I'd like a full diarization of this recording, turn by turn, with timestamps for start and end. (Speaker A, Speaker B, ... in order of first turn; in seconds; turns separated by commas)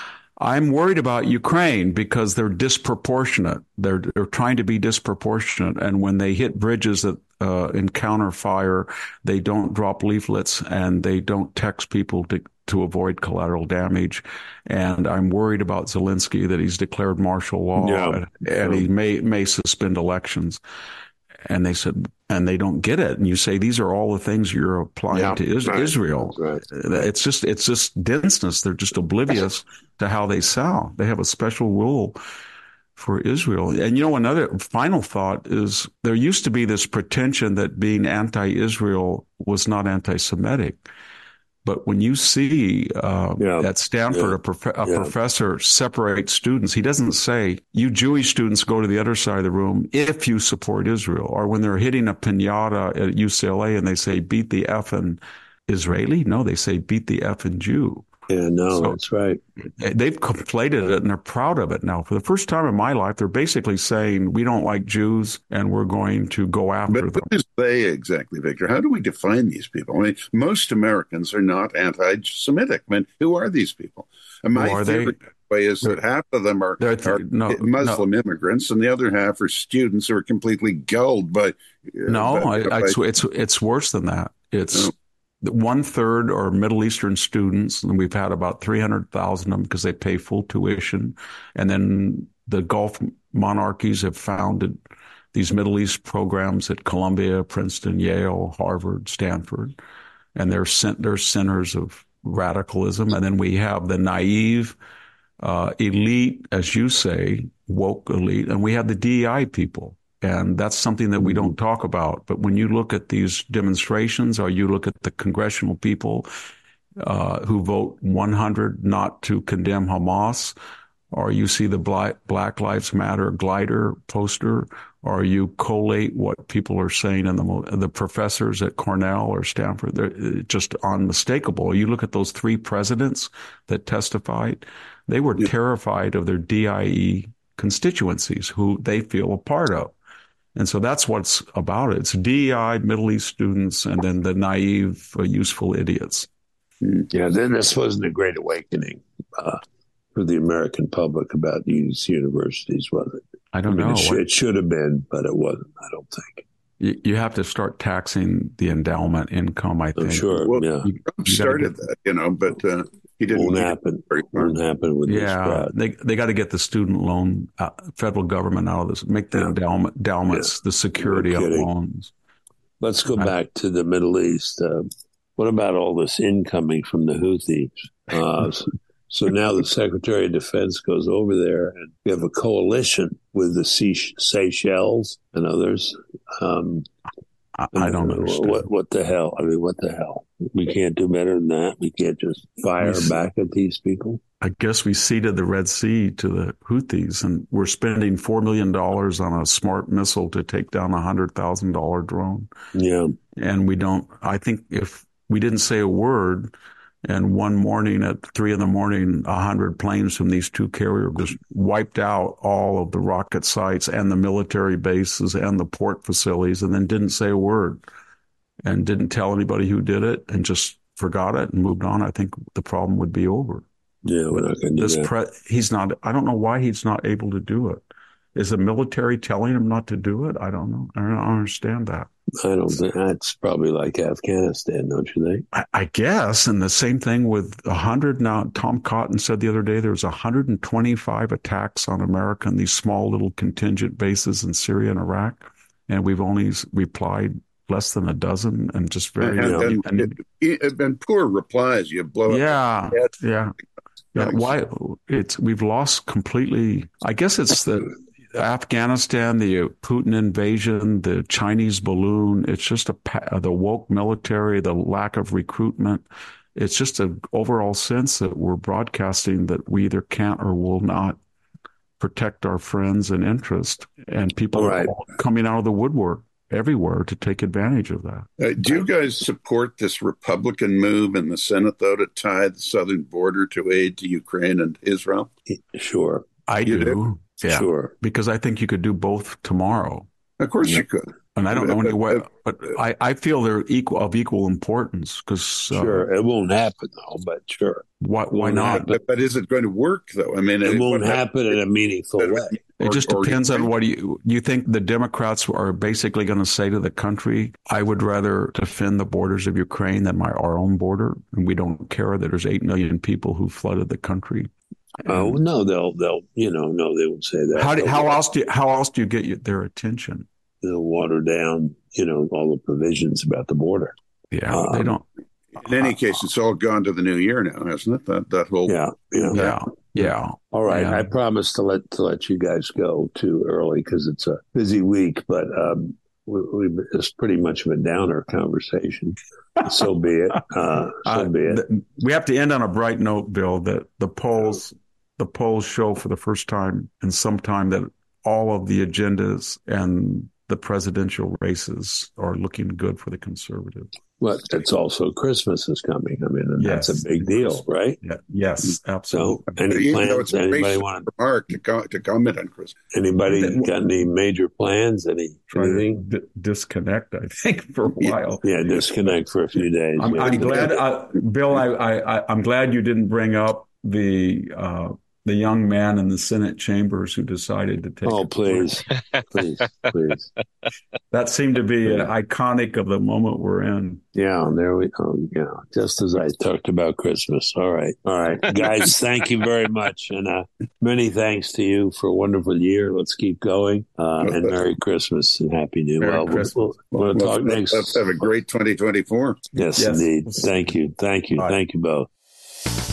Speaker A: 0.4-20.6, Speaker B: 17.8-18.9, Speaker A: 21.4-32.2, Speaker B: 25.1-26.6, Speaker A: 33.0-40.8, Speaker A: 41.6-58.0, Speaker B: 43.4-45.1, Speaker B: 58.3-59.4, Speaker A: 58.7-59.0, Speaker A: 59.8-67.3, Speaker C: 66.9-82.9, Speaker A: 74.5-75.1, Speaker A: 76.8-78.0, Speaker A: 82.1-94.8, Speaker A: 95.3-99.8, Speaker A: 100.3-104.8, Speaker A: 105.4-116.3, Speaker A: 117.0-120.5, Speaker A: 121.1-139.9, Speaker A: 140.5-146.3, Speaker B: 146.9-149.6, Speaker B: 150.1-156.4, Speaker A: 153.5-154.2, Speaker A: 156.8-161.8, Speaker B: 159.9-160.9, Speaker C: 160.4-164.5, Speaker B: 163.3-165.7, Speaker A: 165.1-172.1, Speaker B: 170.3-171.7, Speaker B: 172.8-186.9, Speaker A: 187.6-188.7, Speaker B: 187.7-194.2, Speaker A: 192.8-193.1, Speaker A: 194.4-202.5, Speaker B: 202.7-203.2, Speaker A: 203.3-206.5, Speaker A: 207.0-217.8, Speaker A: 218.6-223.6, Speaker B: 224.0-225.1, Speaker A: 224.3-227.8, Speaker A: 228.3-232.1, Speaker B: 232.4-235.4, Speaker A: 235.5-250.1, Speaker C: 249.2-253.1, Speaker B: 249.4-249.7, Speaker A: 252.3-253.5, Speaker A: 254.1-271.2, Speaker A: 272.0-278.8, Speaker B: 274.5-274.9, Speaker C: 278.4-285.3, Speaker B: 285.5-286.2, Speaker A: 286.5-290.1, Speaker C: 286.7-286.9, Speaker B: 287.4-287.9, Speaker C: 290.4-292.2, Speaker A: 291.4-296.1, Speaker B: 295.7-299.0, Speaker A: 298.0-298.9, Speaker C: 298.8-301.2, Speaker B: 300.6-302.6, Speaker C: 302.2-303.7, Speaker A: 302.8-314.5, Speaker A: 315.0-315.4, Speaker B: 315.1-318.2, Speaker A: 317.5-320.3, Speaker B: 320.6-323.9, Speaker A: 324.3-325.0, Speaker B: 324.5-325.0, Speaker C: 325.6-328.8, Speaker B: 328.7-329.5, Speaker A: 329.3-331.1, Speaker B: 330.5-341.6, Speaker A: 341.0-353.9, Speaker B: 354.2-358.0, Speaker A: 356.6-359.6, Speaker B: 359.1-361.1, Speaker C: 359.7-362.8, Speaker B: 362.9-366.0, Speaker A: 363.3-363.7, Speaker A: 365.5-368.5, Speaker B: 368.4-370.8, Speaker A: 370.0-378.7, Speaker B: 378.0-380.3, Speaker A: 381.1-384.0, Speaker B: 381.9-382.1, Speaker B: 384.1-398.0, Speaker C: 394.2-394.6, Speaker A: 396.0-396.7, Speaker C: 396.9-399.5, Speaker B: 399.5-402.1, Speaker A: 399.8-400.6